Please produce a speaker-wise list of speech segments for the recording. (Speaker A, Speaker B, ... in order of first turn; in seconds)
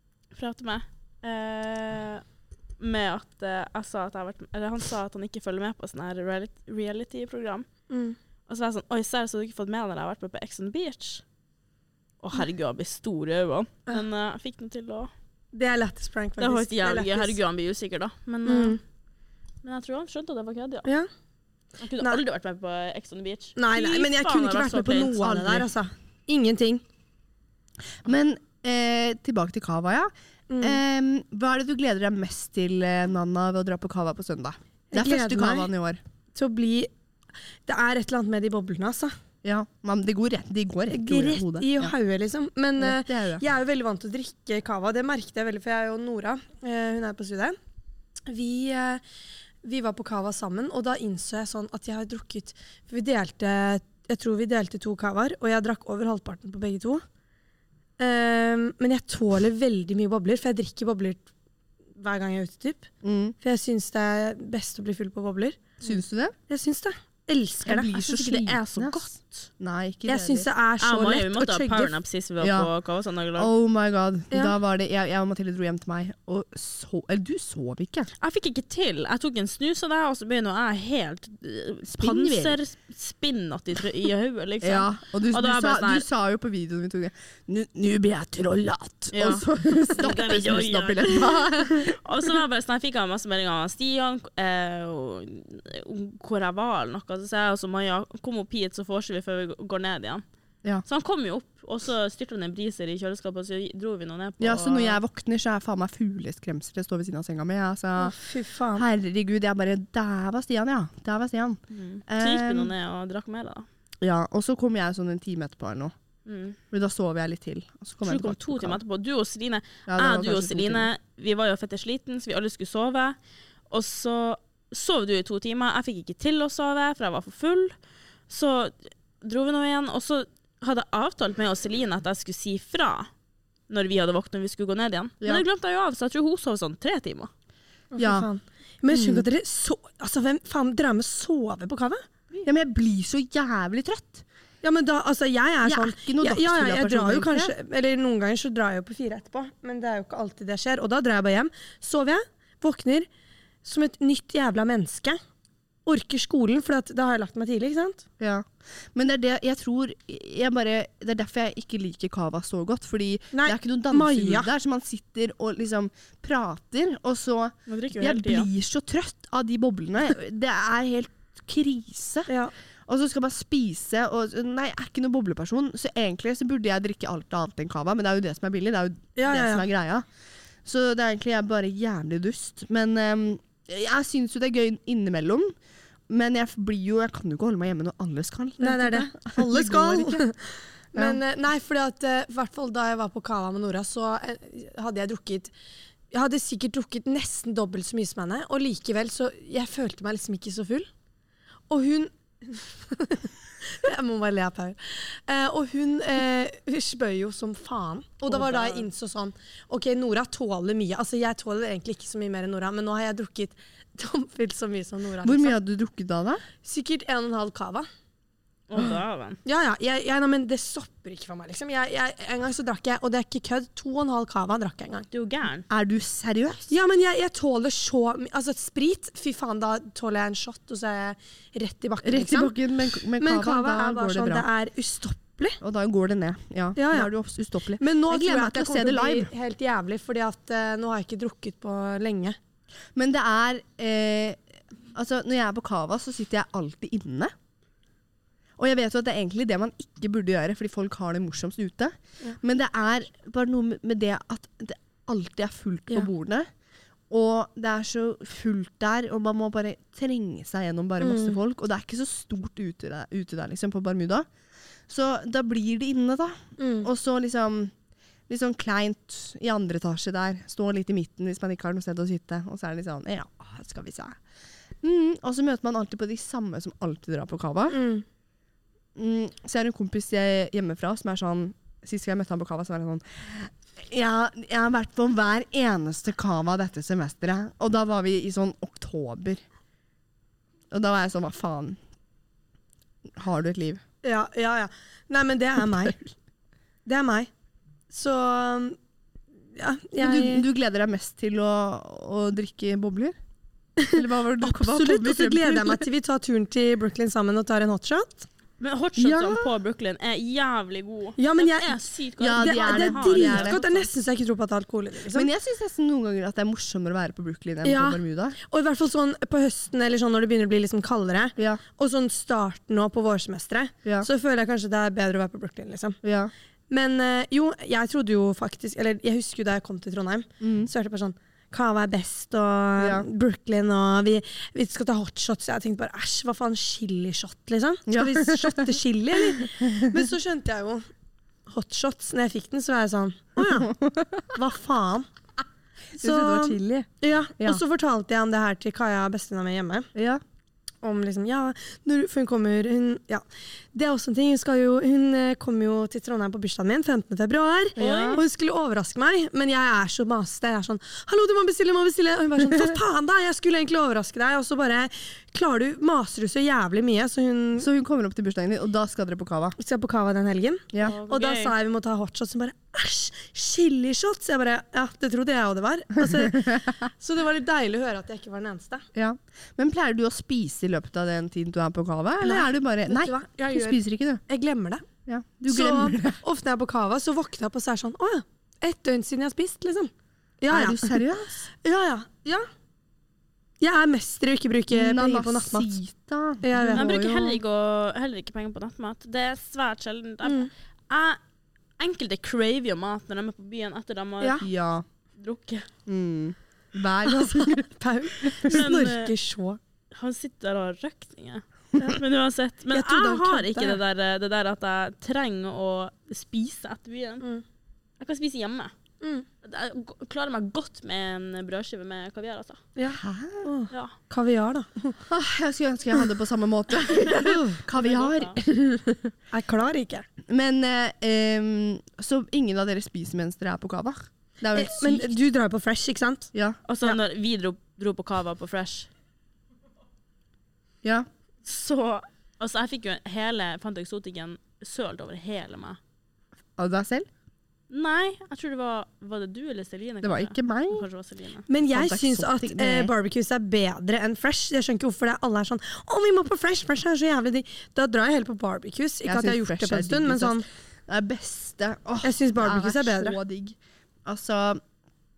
Speaker A: 0.3-2.2, 2.8-7.7, 8.5-11.2, 12.2-15.1, 16.4-18.8, 19.6-20.9, 21.8-25.4, 68.2-69.5, 70.8-73.5, 78.2-86.0, 89.1-100.2, 100.8-105.0, 111.7-113.7, 116.2-116.6, 118.0-123.2, 123.7-127.7, 128.3-133.1, 133.7-137.3, 167.7-168.5, 208.3-208.8, 218.7-219.4, 225.1-225.7, 308.6-313.9, 357.8-358.2, 370.8-371.5, 396.7-401.2, 401.8-404.5, 405.2-405.7, 408.4-409.1, 409.9-417.2, 418.0-418.7, 419.4-422.6, 427.7-428.4, 436.7-438.9, 441.4-445.8, 447.7-451.5
Speaker B: 7.9-8.2, 15.5-17.4, 18.4-18.8, 23.6-26.8, 30.5-30.8, 34.9-35.7, 36.3-36.9, 37.6-39.1, 40.9-47.5, 48.3-49.0, 49.6-57.0, 58.0-61.3, 62.0-62.9, 63.4-65.8, 66.5-68.9, 70.0-72.0, 74.3-74.5, 108.0-108.8, 137.9-142.0, 144.6-153.1, 153.6-155.2, 155.8-158.0, 163.3-164.5, 179.2-179.7, 188.6-195.5, 196.1-200.9, 201.7-215.6, 216.6-217.9, 219.4-225.1, 226.7-232.5, 233.2-235.6, 236.8-237.1, 237.8-242.3, 261.0-261.4, 266.6-266.9, 277.7-278.0, 294.0-296.0, 296.9-297.3, 297.9-298.8, 299.5-300.4, 303.8-308.3, 311.2-311.8, 312.4-315.3, 317.6-326.0, 326.7-340.9, 341.5-343.7, 344.3-345.1, 346.0-349.9, 350.8-367.7, 369.6-378.9, 382.2-384.9, 385.5-391.0, 391.5-392.5, 393.6-395.8, 396.4-396.9, 400.2-400.5, 407.1-409.6, 412.7-413.8, 419.0-419.2, 422.8-425.0, 427.2-427.6, 428.4-430.1, 434.5-436.3, 451.5-460.4, 462.0-463.2
Speaker C: 25.3-25.6, 28.0-36.0, 39.4-41.9, 42.8-43.4, 63.0-63.3, 65.8-66.3, 67.6-69.0, 69.6-70.5, 72.4-72.7, 73.3-78.1, 81.9-82.6, 84.6-92.0, 104.4-108.2, 108.7-112.7, 114.0-115.9, 116.7-118.8, 119.9-120.9, 138.0-138.3, 138.9-139.2, 142.4-144.2, 145.6-147.5, 158.2-172.3, 172.9-180.0, 180.6-185.5, 186.1-190.2, 190.9-191.2, 215.2-216.4, 225.7-226.7, 232.0-234.5, 235.6-239.3, 242.9-247.3, 248.6-256.5, 257.1-264.3, 264.9-267.7, 268.3-274.2, 274.8-277.8, 278.9-289.4, 290.7-291.8, 293.1-293.8, 295.6-296.1, 300.0-303.2, 303.9-305.8, 309.0-309.5, 312.2-313.6, 315.1-318.4, 321.4-321.6, 326.0-326.3, 330.4-330.7, 332.8-333.1, 337.9-338.7, 339.3-340.1, 343.4-344.3, 345.9-347.6, 349.9-350.2, 357.8-358.2, 367.6-369.6, 376.0-376.9, 378.9-384.2, 385.1-386.2, 390.5-391.5, 394.7-397.4, 404.2-404.8, 405.9-407.7, 408.2-408.6, 422.9-423.5, 425.1-429.0, 430.3-435.2, 436.3-436.6, 446.6-447.1, 450.0-450.9, 451.7-452.9, 459.0-464.6